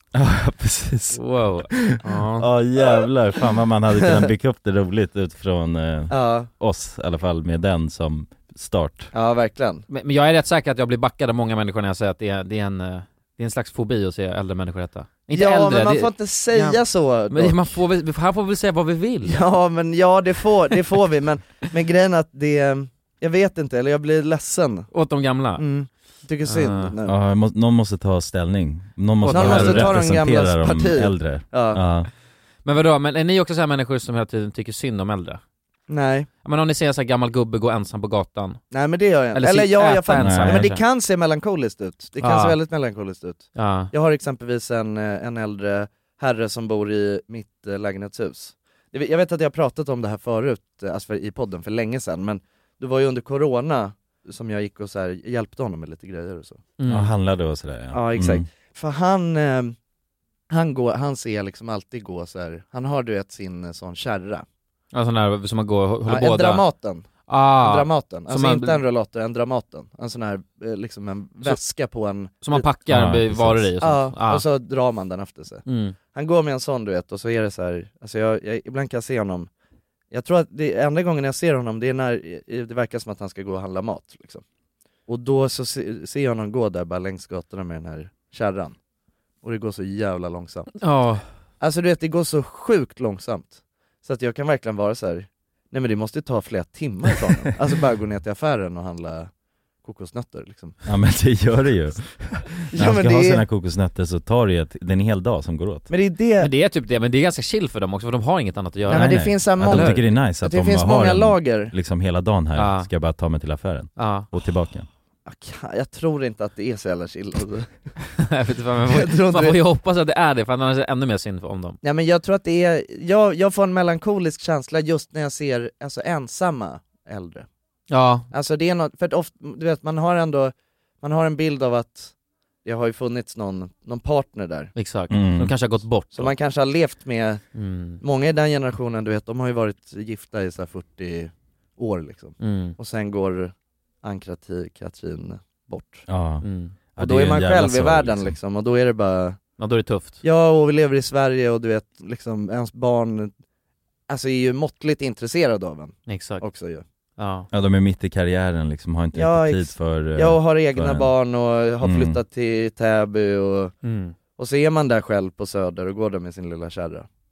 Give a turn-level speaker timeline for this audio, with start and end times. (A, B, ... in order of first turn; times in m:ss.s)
0:00.1-0:01.8 A
0:01.2-0:02.5 B
0:02.4-0:09.1 A
0:06.1-0:06.5 C
0:09.1-0:09.8 C
0:09.9-0:19.4 B
0:15.3-0:17.7 C
0:19.2-0:24.9 C
0:24.9-0:25.6 B
0:25.6-0:27.2 C
0:26.4-0:26.9 B
0:27.1-0:32.1 A
0:29.2-0:29.9 B
0:29.3-0:31.8 C
0:32.6-0:35.4 B
0:35.9-0:36.3 C
0:36.4-0:38.7 B
0:38.7-0:56.6 C
0:39.3-0:40.8 B
0:40.2-0:40.8 A
0:42.2-0:42.6 B
0:43.6-0:43.9 B
0:56.8-0:57.1 B
0:56.9-0:58.5 A
0:57.9-0:59.8 C
1:00.5-1:04.5 C
1:04.9-1:06.7 B
1:06.1-1:07.1 C
1:07.3-1:08.8 B
1:07.6-1:12.7 C
1:12.4-1:14.4 B
1:12.9-1:13.7 A
1:13.8-1:19.5 C
1:15.7-1:16.0 B
1:20.1-1:24.4 C
1:25.1-1:28.8 C
1:29.4-1:30.7 C
1:30.8-1:31.2 B
1:31.6-1:39.3 C
1:39.8-1:40.8 C
1:40.8-1:45.9 A
1:42.7-1:43.4 C
1:45.9-1:46.5 C
1:46.4-1:50.0 B
1:48.9-1:51.7 C
1:48.9-1:54.9 A
1:52.6-1:52.9 B
1:54.0-1:54.3 B
1:55.3-1:57.8 C
1:58.2-2:01.8 B
1:58.9-1:59.6 C
2:01.8-2:07.5 C
2:07.9-2:08.3 B
2:08.3-2:14.7 C
2:14.8-2:16.4 B
2:15.1-2:15.6 A
2:16.1-2:17.4 C
2:17.6-2:18.0 B
2:18.0-2:26.1 C
2:22.4-2:22.8 B
2:26.1-2:28.4 A
2:26.4-2:26.8 B
2:27.0-2:29.4 C
2:29.6-2:30.2 B
2:30.2-2:33.3 C
2:34.1-2:36.8 C
2:36.1-2:36.4 B
2:37.2-2:37.5 B
2:37.5-2:41.1 A
2:39.1-2:43.7 C
2:41.8-2:42.2 A
2:43.8-2:44.2 B
2:44.4-2:47.1 C